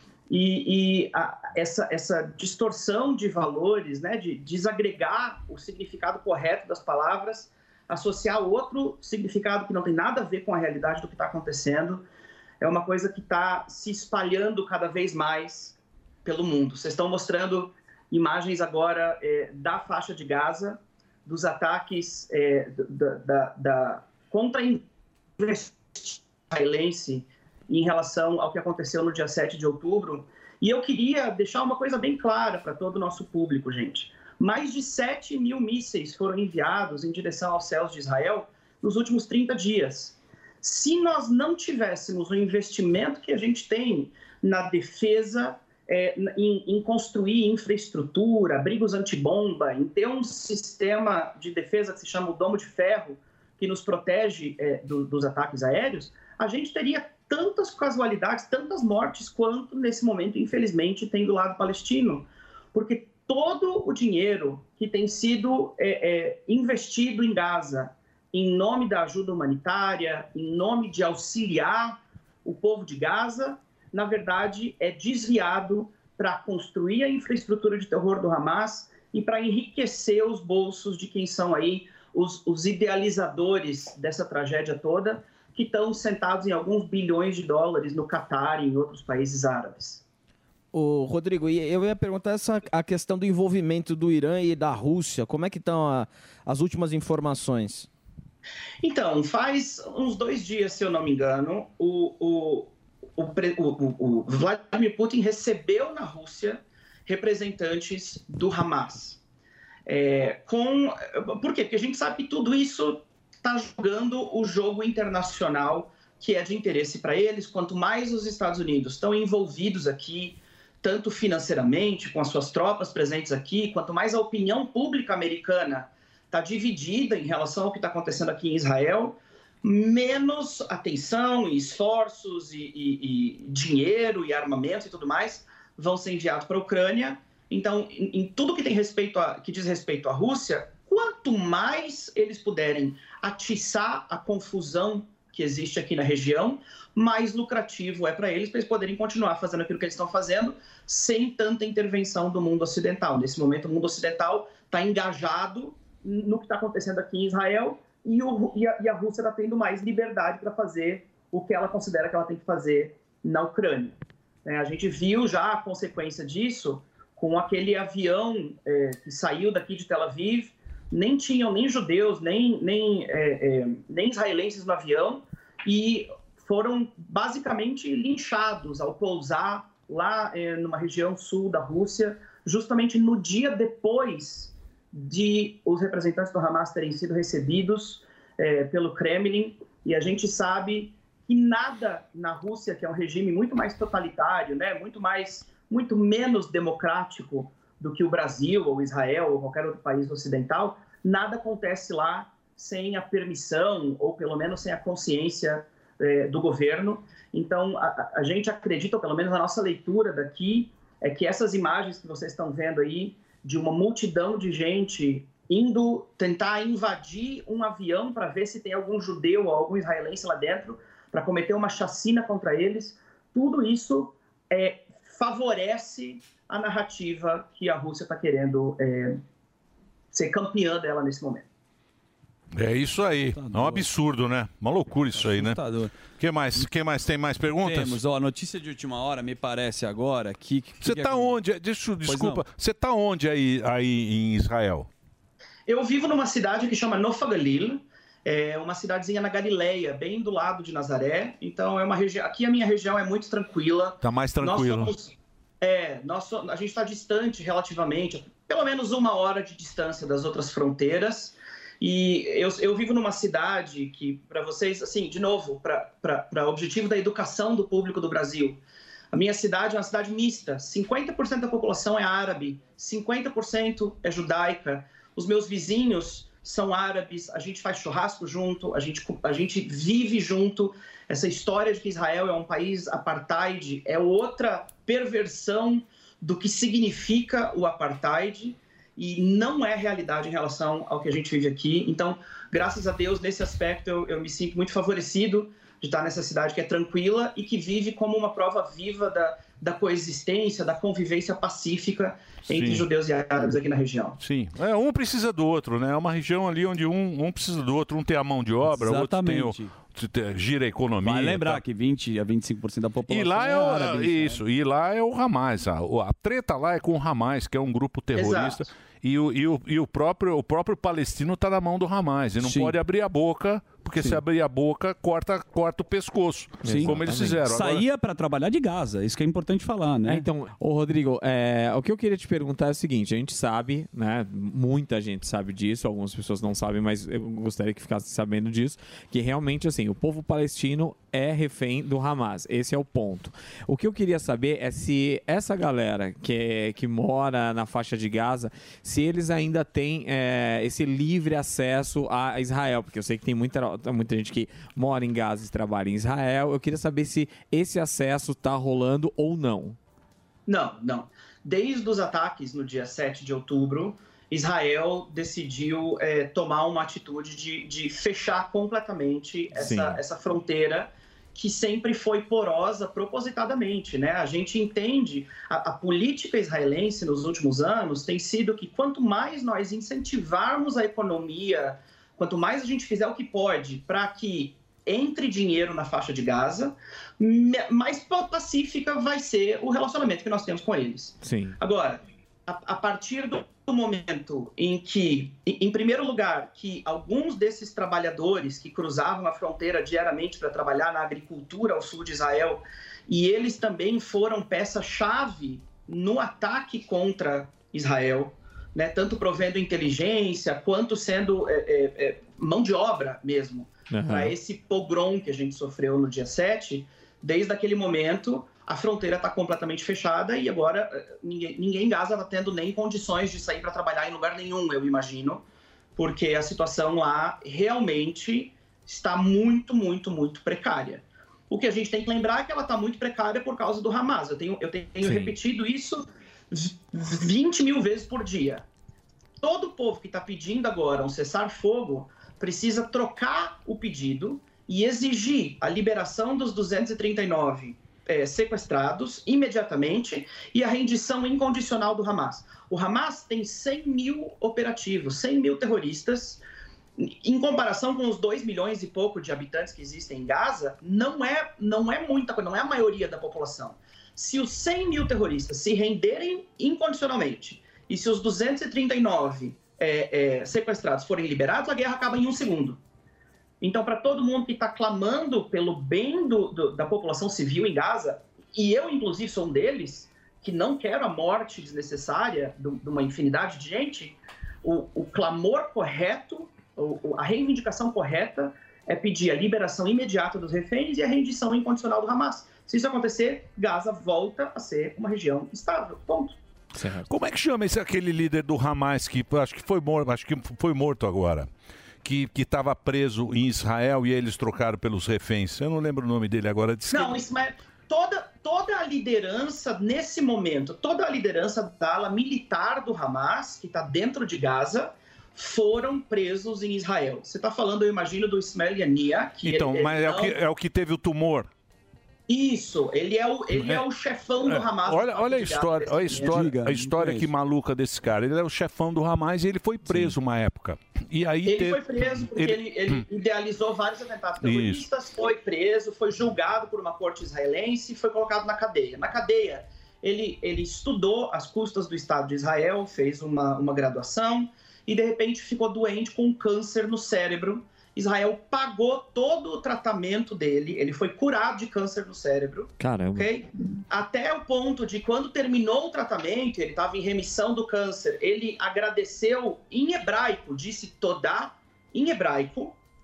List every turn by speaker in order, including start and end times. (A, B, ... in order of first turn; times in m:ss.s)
0:00.3-0:12.0 A
0:12.6-0:24.8 A
0:25.4-1:30.0 A
1:30.7-1:37.9 B
1:38.8-1:49.2 A
1:49.9-3:49.2 A
3:50.1-3:51.5 A
3:52.5-3:58.0 C
3:53.3-3:53.9 D
3:55.1-3:55.9 D
3:57.6-4:01.4 D
4:00.8-4:04.9 C
4:02.0-4:02.4 D
4:05.7-4:28.6 A
4:14.0-4:15.0 C
4:29.1-5:04.2 A
5:02.5-5:02.9 C
5:04.2-5:11.6 C
5:08.7-5:09.7 D
5:11.0-5:14.4 D
5:13.1-5:27.8 C
5:18.1-5:18.6 A
5:22.4-5:22.8 D
5:26.6-5:27.4 E
5:26.7-5:30.3 D
5:30.1-5:59.8 E
6:00.5-7:05.4 A
6:09.5-6:10.0 E
6:31.2-6:31.6 E
6:53.9-6:54.3 E
7:06.0-7:18.6 A
7:15.0-7:15.3 E
7:19.4-7:36.4 A
7:37.0-7:52.8 A
7:53.6-8:16.4 A
8:16.7-8:17.1 E
8:17.1-8:21.5 C
8:22.0-8:27.3 C
8:26.9-8:40.4 A
8:39.4-8:41.5 C
8:42.3-8:46.4 A
8:43.5-8:43.8 C
8:44.5-8:53.0 C
8:46.3-8:47.3 D
8:51.4-9:22.8 A
8:54.4-8:54.9 C
9:12.8-9:13.3 E